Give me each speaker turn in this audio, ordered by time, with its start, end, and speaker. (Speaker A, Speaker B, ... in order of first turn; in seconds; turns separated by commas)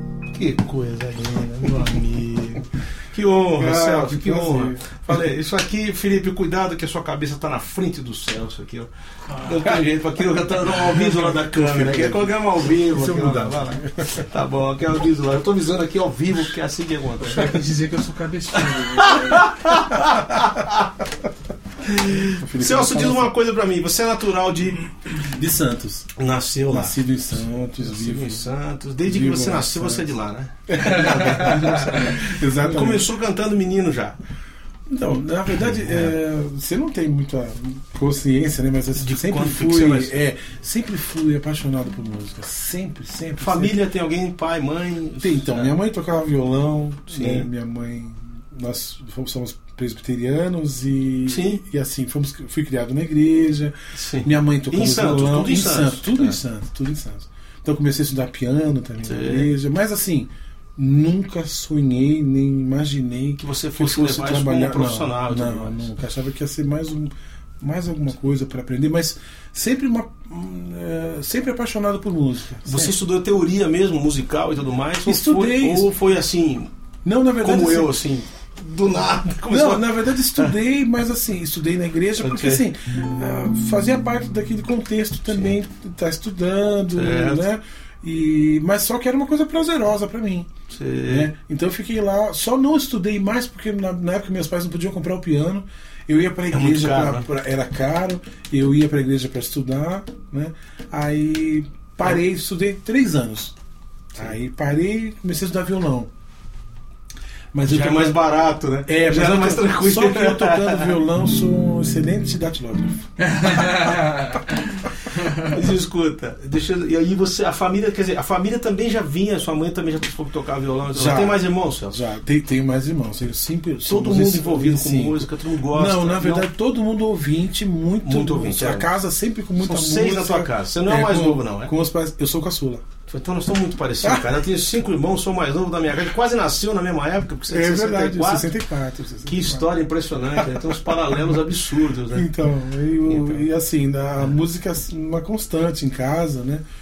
Speaker A: 0.3-17.5, Speaker B: 3.5-5.2, Speaker B: 10.8-14.2, Speaker C: 17.2-19.5, Speaker A: 18.6-20.9, Speaker A: 21.8-24.9, Speaker B: 22.2-23.3, Speaker B: 25.2-26.1, Speaker A: 26.2-27.0, Speaker B: 26.7-28.5, Speaker A: 27.8-34.2, Speaker B: 29.1-30.2, Speaker B: 30.7-33.1, Speaker B: 34.9-43.8, Speaker A: 35.6-36.1, Speaker A: 39.0-40.2, Speaker A: 43.4-45.7, Speaker B: 45.2-73.0, Speaker A: 47.1-47.5, Speaker A: 51.3-51.6, Speaker A: 54.0-56.4, Speaker A: 59.0-59.5, Speaker A: 63.4-65.9, Speaker A: 72.7-76.7, Speaker B: 75.0-75.9, Speaker B: 77.0-77.9, Speaker A: 77.4-80.5, Speaker B: 79.5-90.5, Speaker A: 82.2-82.6, Speaker A: 85.3-85.5, Speaker A: 87.0-87.5, Speaker A: 90.7-91.3, Speaker B: 91.1-103.5, Speaker A: 96.5-97.3, Speaker B: 104.1-106.1, Speaker B: 107.5-108.2, Speaker A: 107.7-111.0, Speaker B: 108.8-114.3, Speaker C: 113.5-114.0, Speaker A: 115.1-122.0, Speaker B: 120.9-132.8, Speaker A: 123.9-126.5, Speaker A: 128.0-128.9, Speaker A: 129.6-131.7, Speaker A: 133.1-138.5, Speaker B: 134.0-134.3, Speaker B: 137.5-139.7, Speaker A: 139.3-142.3, Speaker B: 140.4-141.1, Speaker B: 142.1-146.6, Speaker A: 143.1-143.5